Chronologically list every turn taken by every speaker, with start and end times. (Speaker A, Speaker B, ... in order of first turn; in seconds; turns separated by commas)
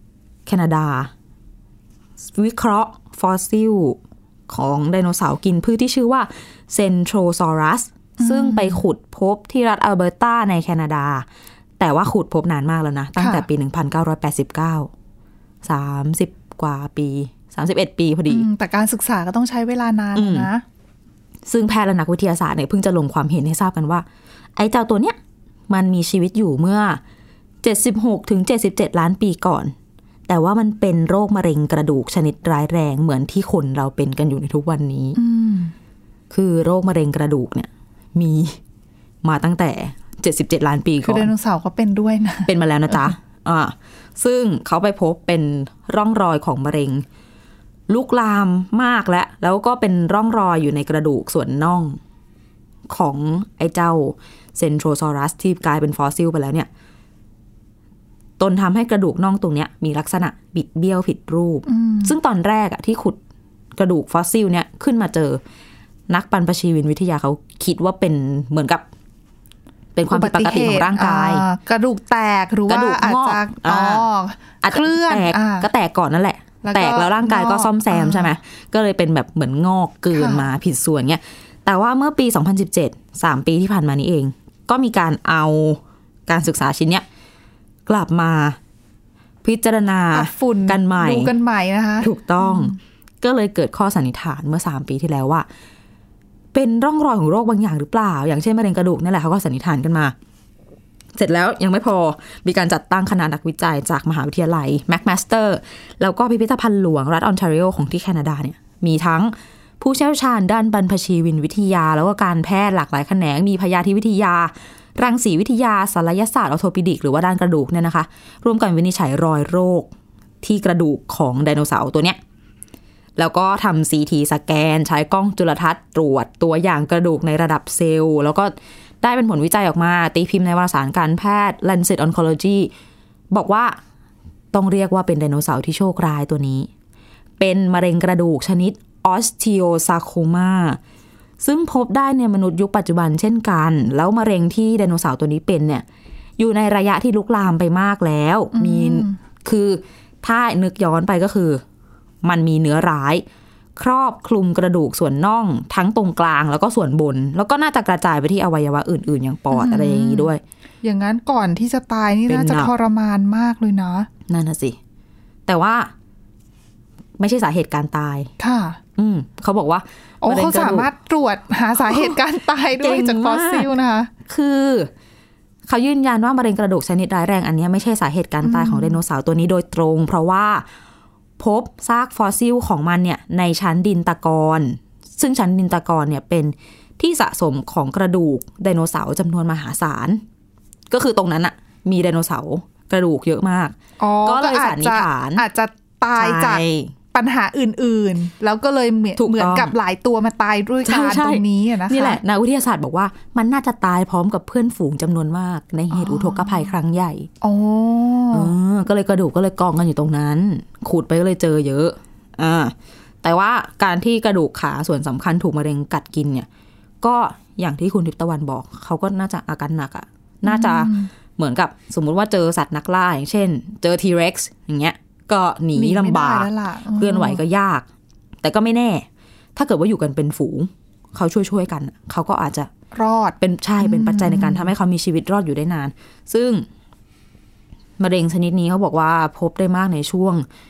Speaker A: 0.5-1.1, Speaker A: 2.2-11.2, Speaker B: 8.2-8.8, Speaker A: 11.8-14.9, Speaker B: 13.2-13.5, Speaker A: 15.6-18.5, Speaker B: 18.3-20.6, Speaker A: 20.1-20.5, Speaker A: 21.4-25.2, Speaker A: 25.7-27.0, Speaker A: 27.6-29.7, Speaker A: 30.3-35.2, Speaker B: 35.1-35.7, Speaker A: 36.3-38.6, Speaker A: 39.2-41.3, Speaker B: 41.0-43.1, Speaker A: 42.5-47.0, Speaker A: 47.9-52.0, Speaker A: 52.9-56.7, Speaker A: 58.4-63.2, Speaker B: 61.7-62.1, Speaker A: 63.8-65.4, Speaker A: 66.1-68.8, Speaker A: 69.9-71.5, Speaker B: 70.1-75.7, Speaker A: 72.7-74.1, Speaker A: 74.6-87.0, Speaker B: 76.6-78.3, Speaker B: 80.1-80.5, Speaker A: 87.8-88.6, Speaker A: 89.4-91.3, Speaker B: 90.1-92.8, Speaker A: 92.0-95.5, Speaker A: 96.5-100.1, Speaker A: 101.1-122.2, Speaker A: 123.2-132.7, Speaker A: 133.3-133.8, Speaker A: 134.5-136.7, Speaker A: 137.4-140.8, Speaker A: 141.4-145.8, Speaker A: 146.4-151.6, Speaker B: 148.5-149.2, Speaker A: 152.2-153.2, Speaker A: 153.8-160.4, Speaker B: 159.5-160.3, Speaker B: 160.8-164.1, Speaker A: 162.3-162.7, Speaker A: 164.3-164.8, Speaker A: 165.4-165.9, Speaker A: 167.2-168.3, Speaker B: 168.4-168.8, Speaker A: 169.0-170.9, Speaker B: 170.2-174.1, Speaker A: 171.8-172.2, Speaker A: 172.7-173.7, Speaker A: 174.2-174.9, Speaker A: 175.7-180.7, Speaker B: 178.4-179.0, Speaker A: 181.4-190.2, Speaker A: 190.9-195.4, Speaker B: 194.0-202.2, Speaker A: 196.1-196.9, Speaker A: 199.2-199.7, Speaker A: 200.8-207.3, Speaker B: 205.9-206.7, Speaker B: 207.4-208.5, Speaker A: 208.3-216.5, Speaker A: 217.0-227.9, Speaker B: 220.4-221.1, Speaker B: 225.7-227.4, Speaker A: 228.4-232.7, Speaker B: 232.9-234.7, Speaker A: 233.4-236.7, Speaker A: 238.0-240.4